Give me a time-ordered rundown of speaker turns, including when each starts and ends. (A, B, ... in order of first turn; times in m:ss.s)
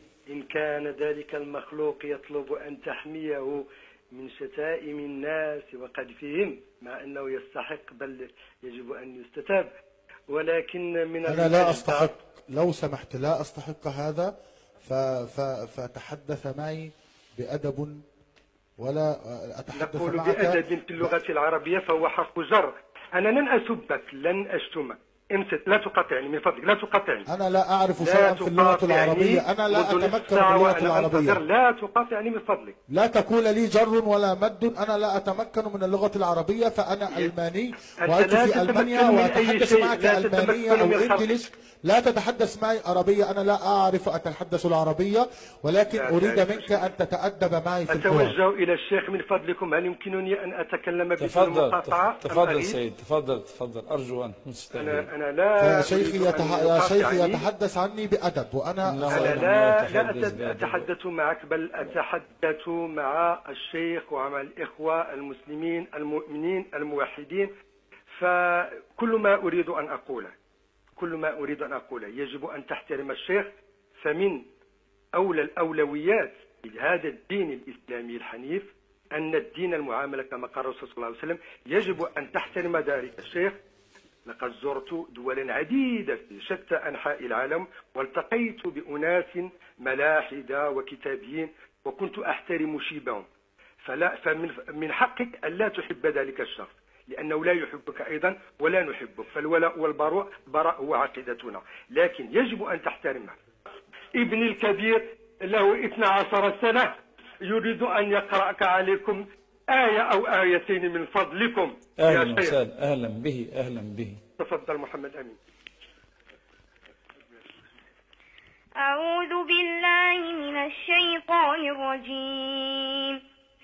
0:00.3-0:09.7 A
0:10.3-0:12.1 A
0:11.2-0:14.3 B
0:14.8-0:18.0 B
0:18.8-0:21.1 B
0:19.7-0:27.3 A
0:27.3-0:31.4 B
0:28.0-0:32.8 A
0:32.9-0:48.4 B
0:38.0-0:41.4 A
0:45.9-0:46.9 A
0:47.9-0:52.8 A
0:51.2-0:55.1 C
0:54.7-0:57.4 A
0:55.6-0:59.4 B
0:58.8-1:00.9 C
0:59.1-1:07.5 A
1:08.1-1:10.3 A
1:11.0-1:13.5 A
1:14.0-1:14.5 A
1:15.1-1:23.6 A
1:24.3-1:33.3 A
1:33.8-1:43.4 A
1:44.2-1:52.6 A
1:52.0-1:54.2 C
1:54.4-1:55.4 A
1:58.8-2:03.2 D